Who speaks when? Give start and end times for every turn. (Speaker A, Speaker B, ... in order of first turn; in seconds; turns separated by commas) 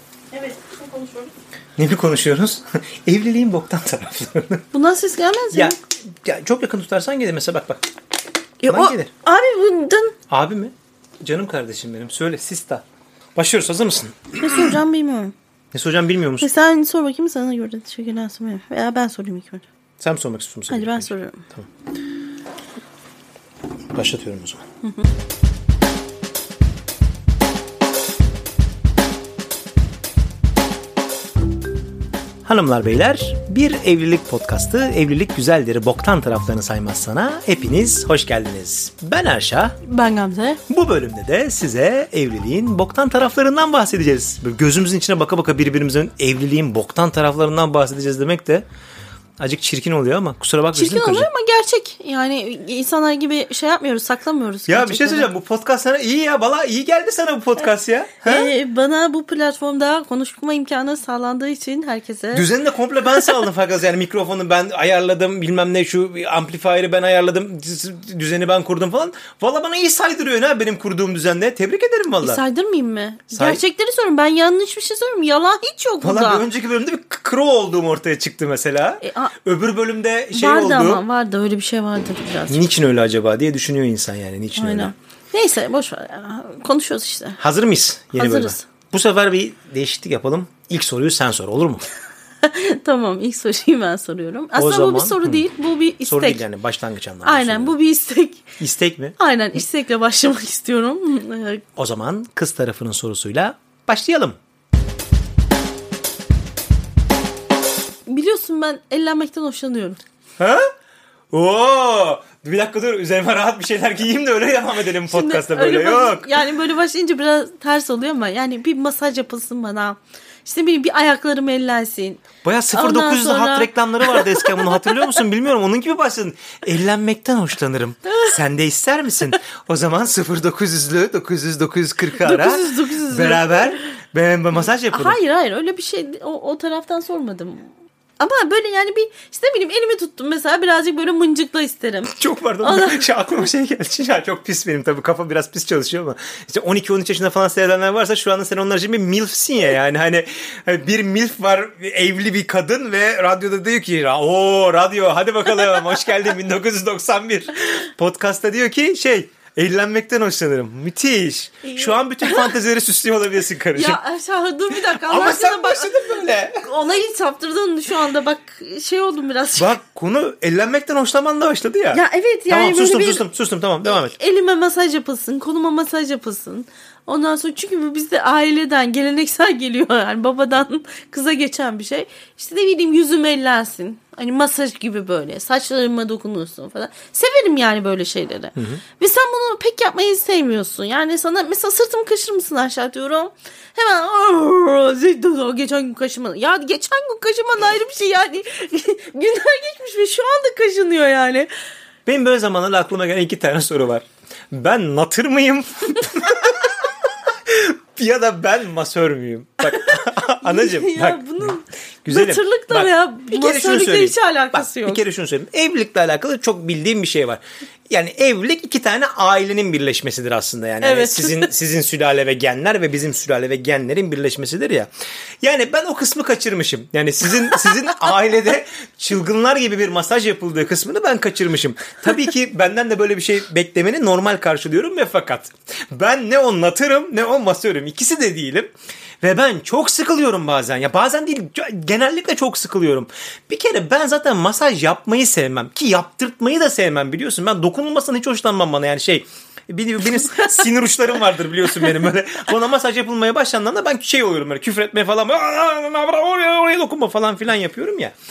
Speaker A: 0.3-1.3, Speaker B: 1.8-4.6, Speaker A: 4.7-5.8, Speaker B: 5.5-7.8, Speaker A: 8.6-10.1, Speaker B: 8.7-9.1, Speaker B: 10.3-10.7, Speaker B: 11.2-12.8, Speaker B: 13.4-14.6, Speaker A: 14.4-15.3, Speaker B: 15.7-16.5, Speaker A: 16.4-19.7, Speaker B: 20.0-21.7, Speaker A: 20.7-21.4, Speaker B: 23.9-24.6, Speaker A: 24.8-25.1, Speaker B: 32.5-39.8, Speaker A: 39.8-40.6, Speaker B: 40.7-48.6, Speaker B: 49.4-51.3, Speaker A: 50.7-55.3, Speaker B: 54.7-58.5, Speaker A: 58.2-62.5, Speaker B: 62.3-72.4, Speaker A: 63.2-63.4, Speaker A: 72.2-76.4, Speaker B: 73.3-73.6, Speaker B: 76.0-81.0, Speaker A: 79.0-79.3, Speaker A: 80.3-82.6, Speaker B: 82.5-84.9, Speaker A: 84.6-87.4, Speaker B: 87.4-91.9, Speaker A: 88.1-88.6, Speaker A: 92.4-96.4, Speaker B: 94.6-95.4, Speaker B: 96.0-97.8, Speaker A: 97.2-98.5, Speaker B: 98.6-99.2, Speaker A: 99.2-101.6, Speaker B: 101.8-104.4, Speaker A: 108.1-110.0, Speaker B: 110.4-110.7, Speaker B: 111.3-116.3, Speaker A: 115.1-125.2, Speaker B: 122.4-135.2, Speaker A: 128.1-128.4, Speaker A: 132.1-133.8, Speaker A: 134.5-143.1, Speaker B: 142.1-164.0, Speaker A: 161.7-162.5, Speaker A: 163.7-165.9, Speaker B: 164.9-166.7, Speaker A: 166.5-169.7, Speaker B: 169.6-174.1, Speaker A: 171.9-173.2, Speaker A: 173.8-201.5, Speaker B: 188.6-188.8, Speaker B: 202.1-224.9, Speaker A: 209.7-215.0, Speaker A: 220.8-221.5, Speaker B: 225.4-238.7, Speaker B: 239.2-258.1, Speaker A: 250.1-250.7